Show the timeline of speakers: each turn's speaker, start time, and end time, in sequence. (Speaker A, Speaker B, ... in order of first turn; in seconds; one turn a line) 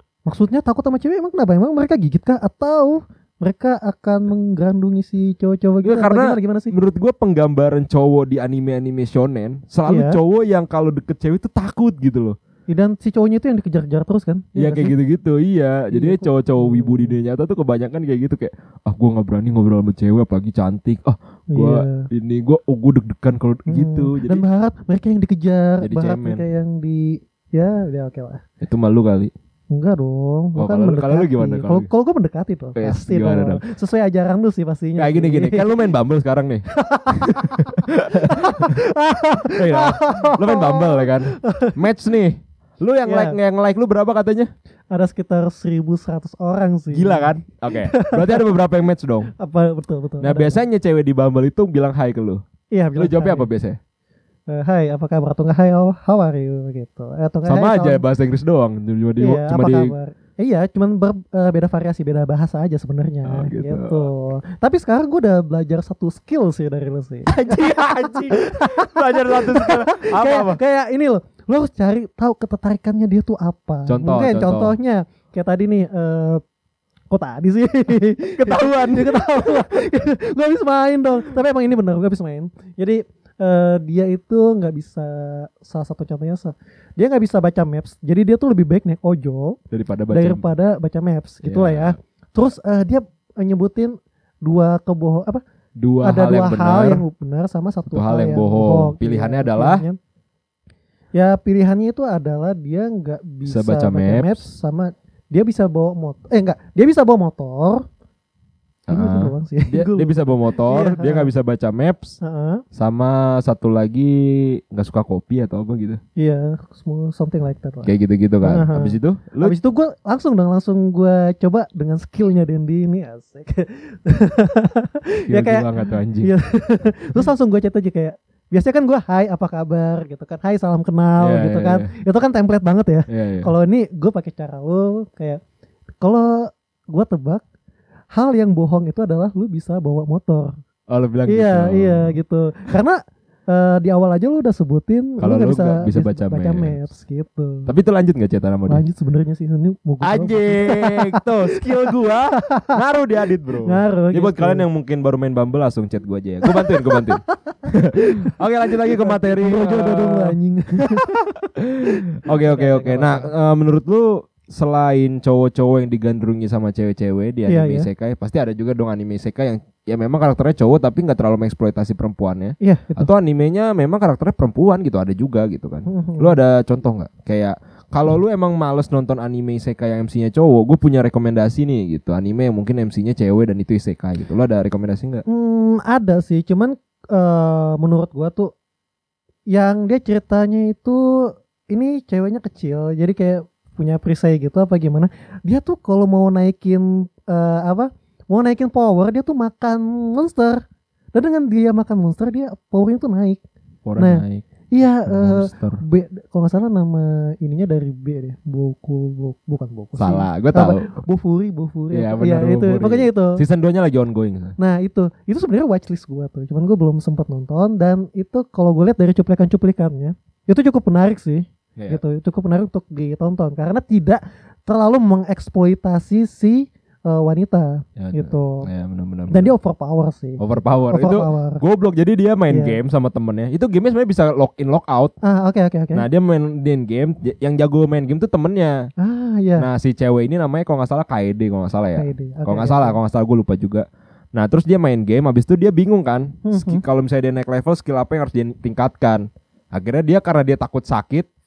Speaker A: 0.3-6.7
Speaker B: 5.8-12.4
Speaker A: 9.9-10.2
Speaker A: 12.7-14.9
Speaker B: 14.6-24.4
Speaker A: 15.9-17.2
Speaker A: 21.5-22.1
Speaker A: 23.7-28.4
Speaker B: 25.8-26.4
Speaker B: 28.6-29.3
Speaker A: 29.7-35.7
Speaker B: 30.6-31.9
Speaker B: 32.8-33.6
Speaker B: 35.0-38.8
Speaker A: 36.7-41.8
Speaker B: 39.5-44.5
Speaker A: 43.1-43.4
Speaker A: 44.9-48.4
Speaker B: 46.9-49.3
Speaker A: 49.4-50.6
Speaker B: 50.2-52.4
Speaker A: 52.7-53.5
Speaker B: 53.0-53.8
Speaker A: 54.5-58.0
Speaker B: 57.5-59.9
Speaker A: 59.2-76.4
Speaker B: 63.2-64.0
Speaker B: 67.3-70.6
Speaker B: 73.9-74.8
Speaker A: 77.1-89.6
Speaker B: 78.3-79.7
Speaker B: 89.7-90.5
Speaker A: 90.1-95.4
Speaker B: 91.4-92.0
Speaker B: 95.8-97.0
Speaker A: 96.0-100.0
Speaker B: 97.9-99.8
Speaker A: 101.2-107.8
Speaker B: 103.5-104.4
Speaker B: 108.9-112.2
Speaker A: 108.9-111.3
Speaker A: 112.2-112.6
Speaker B: 112.7-116.0
Speaker A: 116.2-117.9
Speaker B: 117.8-119.6
Speaker A: 118.4-135.4
Speaker B: 125.3-126.3
Speaker B: 131.2-131.9
Speaker B: 133.1-133.5
Speaker A: 136.0-137.4
Speaker A: 138.1-140.5
Speaker B: 140.9-142.2
Speaker A: 141.3-147.7
Speaker B: 145.2-146.8
Speaker B: 147.7-148.8
Speaker A: 148.7-151.6
Speaker B: 150.0-185.2
Speaker A: 152.4-152.8
Speaker A: 153.7-154.7
Speaker A: 156.5-157.1
Speaker A: 158.2-161.2
Speaker A: 162.5-163.3
Speaker A: 167.5-167.9
Speaker A: 172.6-173.1
Speaker A: 175.9-176.4
Speaker A: 185.3-188.5
Speaker A: 189.5-203.4
Speaker B: 203.9-204.5
Speaker A: 204.0-213.4
Speaker B: 205.1-205.8
Speaker B: 210.0-211.0
Speaker B: 211.9-214.6
Speaker A: 214.6-228.7
Speaker B: 228.0-229.5
Speaker A: 229.3-231.6
Speaker B: 230.4-235.1
Speaker A: 232.5-232.8
Speaker A: 235.2-236.1
Speaker B: 235.9-238.9
Speaker A: 239.0-239.7
Speaker B: 239.6-251.3
Speaker A: 242.0-243.0
Speaker A: 246.5-246.8